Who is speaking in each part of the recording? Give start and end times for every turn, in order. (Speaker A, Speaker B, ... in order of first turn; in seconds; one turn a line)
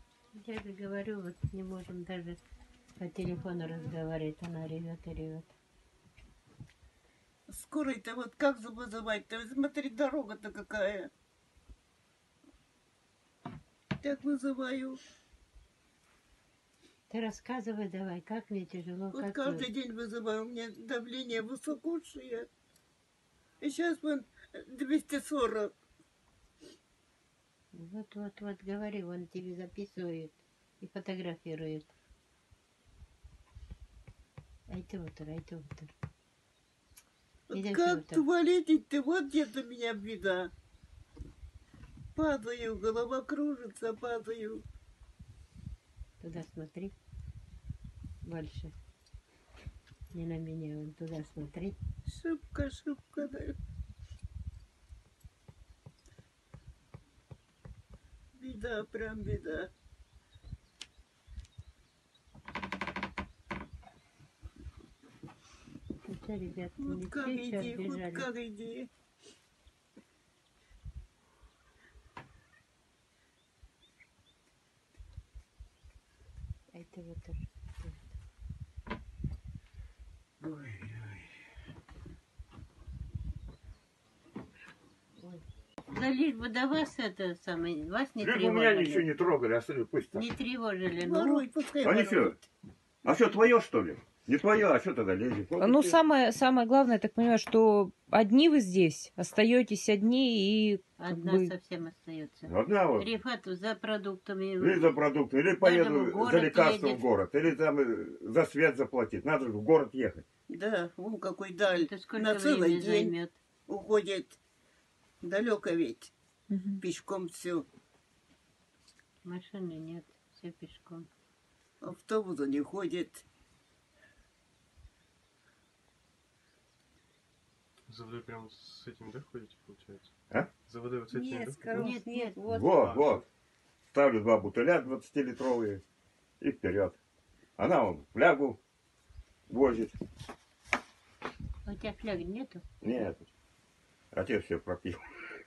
Speaker A: 0.3-2.4
Speaker A: 3.0-5.5
Speaker B: 7.5-11.1
Speaker B: 14.0-15.0
Speaker A: 17.1-19.7
Speaker B: 19.1-22.5
Speaker B: 23.6-25.7
Speaker A: 27.7-31.9
Speaker A: 34.7-35.9
Speaker B: 37.5-40.5
Speaker A: 37.5-38.2
Speaker B: 42.1-44.6
Speaker A: 46.2-46.9
Speaker A: 48.2-48.7
Speaker A: 50.1-51.8
Speaker B: 52.0-53.5
Speaker B: 58.3-59.7
Speaker A: 66.1-68.3
Speaker B: 66.8-68.9
Speaker A: 76.7-78.0
Speaker C: 80.4-81.2
Speaker A: 85.2-89.1
Speaker C: 88.2-90.3
Speaker A: 90.1-91.5
Speaker B: 91.0-92.5
Speaker C: 91.8-92.4
Speaker C: 93.0-96.0
Speaker D: 95.6-101.6
Speaker A: 101.0-105.0
Speaker C: 102.5-103.1
Speaker C: 104.6-110.2
Speaker A: 105.6-107.0
Speaker B: 110.5-113.1
Speaker A: 111.7-113.3
Speaker B: 113.7-114.4
Speaker B: 115.2-116.1
Speaker B: 116.8-117.7
Speaker A: 119.2-121.1
Speaker B: 121.8-123.2
Speaker E: 127.9-130.1
Speaker E: 130.7-131.8
Speaker B: 131.1-132.8
Speaker A: 131.7-132.4
Speaker C: 132.5-133.2
Speaker E: 132.7-133.2
Speaker C: 133.9-135.8
Speaker C: 136.4-137.0
Speaker C: 137.6-138.6
Speaker C: 139.5-140.0
Speaker A: 141.7-142.6
Speaker C: 142.8-143.3
Speaker C: 144.1-145.0